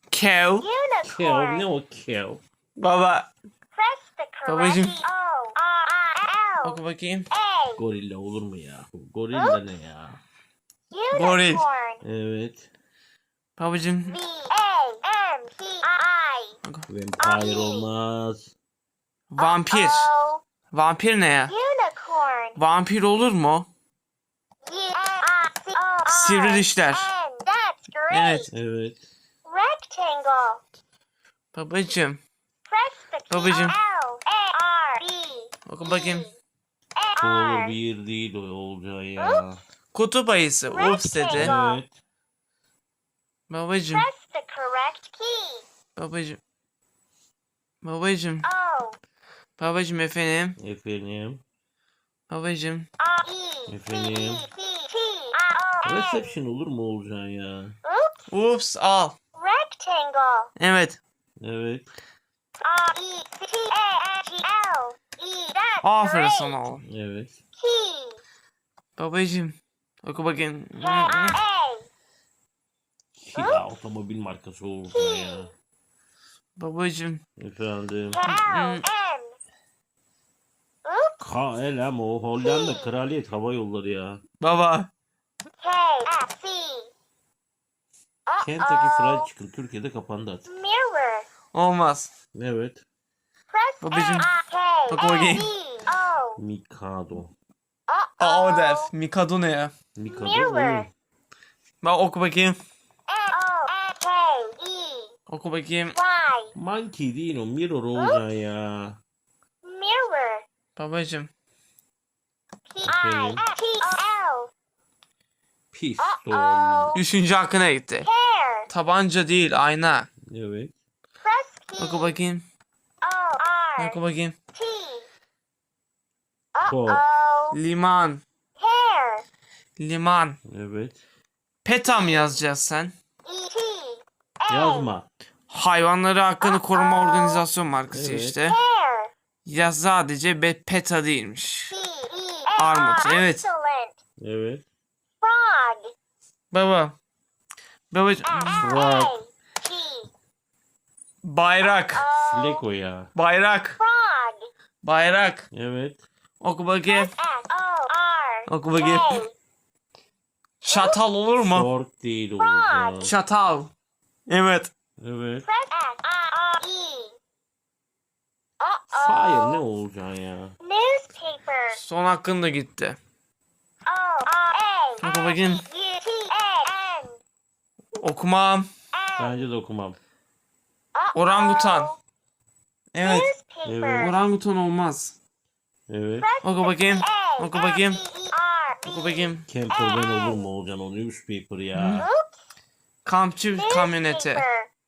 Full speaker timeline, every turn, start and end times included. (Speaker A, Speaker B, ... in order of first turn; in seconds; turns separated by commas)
Speaker A: 0.1-0.7, Speaker B: 0.6-1.7, Speaker C: 1.0-2.4, Speaker A: 2.8-3.3, Speaker B: 3.7-6.8, Speaker A: 4.5-5.0, Speaker A: 6.6-7.3, Speaker B: 7.3-7.8, Speaker C: 7.8-10.2, Speaker B: 9.3-9.6, Speaker B: 10.9-12.0, Speaker A: 11.1-11.6, Speaker C: 12.0-12.7, Speaker A: 13.6-14.2, Speaker B: 14.1-16.6, Speaker C: 16.9-18.5, Speaker B: 17.2-17.9, Speaker A: 19.3-20.1, Speaker B: 19.4-20.4, Speaker A: 20.7-21.5, Speaker B: 21.5-22.6, Speaker A: 22.6-23.7, Speaker B: 24.6-28.5, Speaker A: 26.1-27.1, Speaker A: 28.1-28.5, Speaker C: 28.5-29.0, Speaker B: 29.4-30.6, Speaker A: 31.5-32.2, Speaker B: 32.7-36.4, Speaker A: 33.3-33.8, Speaker A: 35.7-36.3, Speaker B: 37.0-37.8, Speaker C: 37.2-39.6, Speaker B: 39.2-39.4, Speaker A: 39.9-41.5, Speaker B: 40.7-41.8, Speaker C: 41.3-41.9, Speaker A: 43.5-44.0, Speaker B: 43.9-45.7, Speaker A: 46.0-46.4, Speaker A: 47.8-48.5, Speaker B: 48.5-49.0, Speaker A: 49.6-50.6, Speaker C: 50.6-51.4, Speaker A: 52.3-52.9, Speaker B: 53.0-56.3, Speaker C: 53.7-54.5, Speaker C: 55.8-57.8, Speaker B: 57.9-58.3, Speaker A: 58.3-59.2, Speaker B: 59.4-60.5, Speaker A: 60.6-61.0, Speaker C: 61.4-61.9, Speaker B: 62.6-66.6, Speaker A: 65.8-66.8, Speaker C: 66.8-67.4, Speaker B: 67.6-68.2, Speaker A: 69.0-71.4, Speaker B: 70.8-71.9, Speaker C: 73.2-75.5, Speaker B: 73.4-73.6, Speaker B: 74.9-75.5, Speaker A: 76.6-77.2, Speaker C: 77.4-78.2, Speaker B: 78.1-79.4, Speaker A: 78.3-78.8, Speaker B: 80.8-81.2, Speaker C: 81.2-84.2, Speaker B: 82.4-82.9, Speaker A: 84.4-84.9, Speaker B: 85.6-86.9, Speaker B: 88.3-89.3, Speaker C: 88.4-90.5, Speaker B: 90.5-91.3, Speaker A: 91.5-92.1, Speaker C: 92.3-92.8, Speaker B: 93.5-96.4, Speaker A: 93.8-94.3, Speaker A: 94.9-95.5, Speaker C: 96.4-97.3, Speaker B: 97.9-98.9, Speaker A: 98.2-99.7, Speaker C: 100.0-100.9, Speaker B: 100.1-100.9, Speaker A: 101.8-102.6, Speaker B: 103.1-105.1, Speaker A: 105.3-106.0, Speaker B: 106.0-106.5, Speaker C: 106.5-109.0, Speaker B: 108.0-108.2, Speaker B: 109.6-110.5, Speaker A: 110.8-111.3, Speaker B: 112.7-114.5, Speaker C: 112.8-113.5, Speaker C: 115.7-117.0, Speaker B: 116.0-117.0, Speaker A: 116.9-118.1, Speaker B: 118.0-118.7, Speaker A: 118.7-120.1, Speaker C: 120.3-120.7, Speaker B: 121.2-122.2, Speaker A: 121.8-122.5, Speaker B: 123.0-124.0, Speaker A: 123.8-124.3, Speaker B: 124.5-125.1, Speaker B: 126.5-127.6, Speaker C: 126.6-127.0, Speaker A: 127.5-128.2, Speaker B: 128.6-129.2, Speaker A: 129.8-130.4, Speaker C: 130.5-131.0, Speaker A: 131.6-132.9, Speaker B: 131.9-132.4, Speaker B: 133.2-134.9, Speaker C: 134.5-135.1, Speaker A: 135.5-138.6, Speaker B: 136.4-137.4, Speaker C: 137.9-138.4, Speaker B: 138.4-139.1, Speaker A: 139.4-141.8, Speaker B: 141.7-144.0, Speaker A: 142.6-143.5, Speaker C: 144.2-144.6, Speaker B: 145.2-145.9, Speaker A: 146.5-146.9, Speaker A: 147.9-148.7, Speaker B: 148.3-150.1, Speaker C: 148.5-149.2, Speaker A: 151.2-152.1, Speaker B: 151.9-152.6, Speaker C: 152.2-153.1, Speaker A: 153.2-153.8, Speaker B: 153.8-154.5, Speaker A: 154.8-155.5, Speaker C: 155.5-156.0, Speaker A: 156.4-157.1, Speaker B: 156.9-159.3, Speaker A: 158.5-159.2, Speaker A: 160.6-161.7, Speaker B: 160.7-161.0, Speaker C: 161.5-163.2, Speaker B: 162.4-163.2, Speaker A: 163.0-163.7, Speaker A: 164.3-164.7, Speaker C: 165.0-165.5, Speaker B: 165.4-167.2, Speaker B: 168.6-169.6, Speaker C: 168.9-170.5, Speaker B: 170.6-171.8, Speaker A: 171.7-173.0, Speaker B: 173.9-177.2, Speaker A: 175.0-175.7, Speaker A: 177.9-178.7, Speaker B: 178.9-179.4, Speaker C: 179.2-180.0, Speaker B: 180.9-182.0, Speaker A: 181.1-181.9, Speaker A: 182.9-183.3, Speaker B: 183.0-184.2, Speaker C: 183.6-184.2, Speaker A: 183.9-185.2, Speaker C: 185.9-186.3, Speaker B: 186.2-190.5, Speaker A: 186.4-188.0, Speaker A: 188.9-189.5, Speaker C: 189.5-192.1, Speaker A: 191.7-192.1, Speaker B: 192.0-192.3, Speaker A: 193.1-194.4, Speaker B: 193.5-194.7